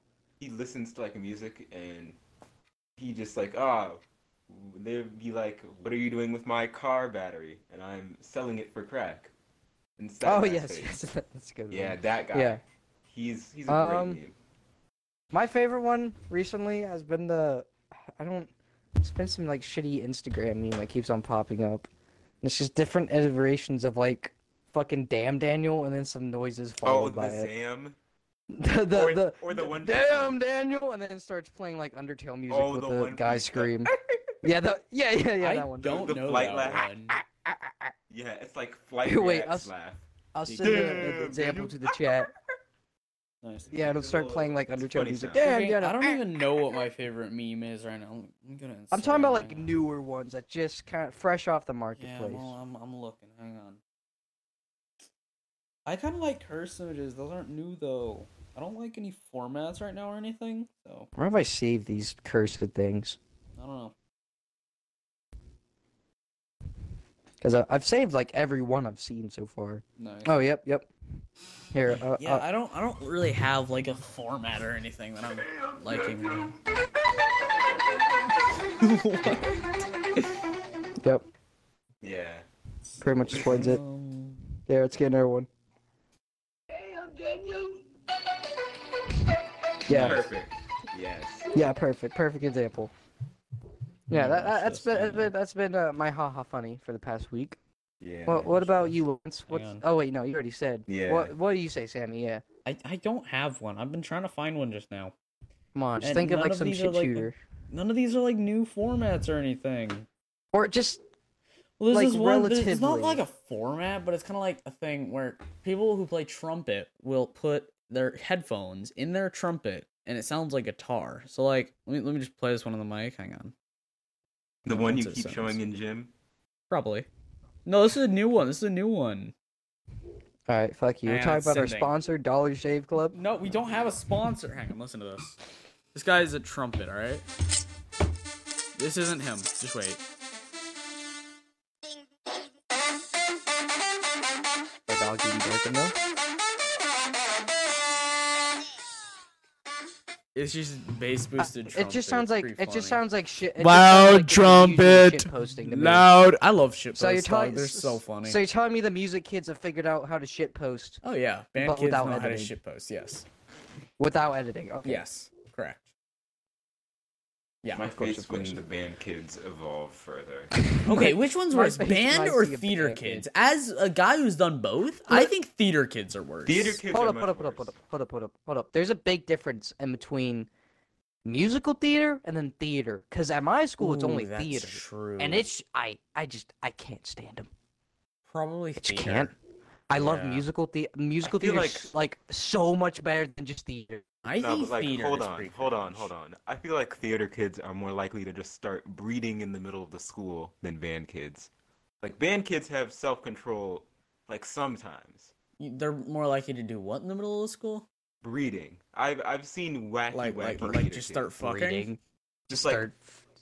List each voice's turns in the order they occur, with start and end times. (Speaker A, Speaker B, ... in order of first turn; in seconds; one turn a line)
Speaker A: 0.4-2.2
Speaker A: 3.0-9.3
Speaker A: 10.0-11.0
Speaker B: 10.2-12.6
Speaker A: 11.7-12.6
Speaker A: 13.1-14.3
Speaker B: 13.7-14.2
Speaker B: 15.3-21.9
Speaker B: 22.4-27.5
Speaker A: 26.8-28.0
Speaker B: 28.5-33.9
Speaker A: 28.9-30.4
Speaker A: 32.5-34.3
Speaker B: 34.4-36.0
Speaker C: 35.4-37.2
Speaker A: 35.8-36.9
Speaker B: 37.2-37.9
Speaker A: 38.1-40.0
Speaker B: 39.0-39.7
Speaker B: 40.4-42.3
Speaker C: 40.5-41.1
Speaker A: 40.6-42.3
Speaker C: 43.4-43.7
Speaker A: 43.7-45.4
Speaker B: 43.7-46.2
Speaker C: 45.3-49.7
Speaker B: 48.9-52.5
Speaker C: 52.0-53.8
Speaker C: 55.9-61.1
Speaker B: 61.2-63.2
Speaker C: 63.6-63.9
Speaker B: 67.4-70.9
Speaker C: 70.0-70.4
Speaker B: 71.7-72.5
Speaker C: 72.2-76.5
Speaker C: 78.8-79.6
Speaker A: 82.0-82.5
Speaker C: 82.9-84.5
Speaker B: 83.0-83.8
Speaker B: 84.7-85.5
Speaker B: 87.0-87.8
Speaker B: 89.9-90.3
Speaker C: 89.9-90.3
Speaker A: 89.9-91.5
Speaker B: 91.5-92.9
Speaker B: 94.1-97.6
Speaker C: 94.1-95.3
Speaker A: 98.0-98.7
Speaker B: 98.3-102.4
Speaker C: 99.5-99.8
Speaker A: 100.9-101.3
Speaker C: 102.7-105.1
Speaker B: 105.7-107.3
Speaker C: 106.0-110.1
Speaker B: 110.5-111.0
Speaker C: 111.8-123.5
Speaker B: 111.9-113.2
Speaker A: 124.7-126.1
Speaker C: 124.8-125.6
Speaker C: 126.7-127.1
Speaker C: 127.7-129.3
Speaker B: 130.5-133.2
Speaker C: 131.1-131.9
Speaker C: 133.1-135.4
Speaker C: 135.9-137.2
Speaker C: 138.8-140.0
Speaker B: 144.9-145.9
Speaker C: 150.3-153.0
Speaker B: 151.4-156.1
Speaker C: 153.6-158.4
Speaker B: 156.9-161.0
Speaker C: 161.0-163.2
Speaker B: 161.6-162.5
Speaker B: 164.0-165.0
Speaker C: 164.8-165.9
Speaker C: 167.6-167.9
Speaker A: 167.8-170.5
Speaker B: 168.0-168.6
Speaker B: 170.6-173.2
Speaker C: 170.8-176.8
Speaker A: 176.5-177.7
Speaker B: 176.9-180.5
Speaker B: 181.3-187.5
Speaker C: 183.8-185.5
Speaker C: 188.3-189.3
Speaker B: 188.8-189.3
Speaker B: 189.9-194.0
Speaker C: 189.9-190.4
Speaker A: 191.2-191.9
Speaker C: 194.2-196.1
Speaker A: 194.4-201.5
Speaker A: 202.0-205.3
Speaker C: 205.6-207.9
Speaker A: 208.2-211.3
Speaker C: 210.1-211.9
Speaker B: 211.4-213.2
Speaker A: 212.5-212.9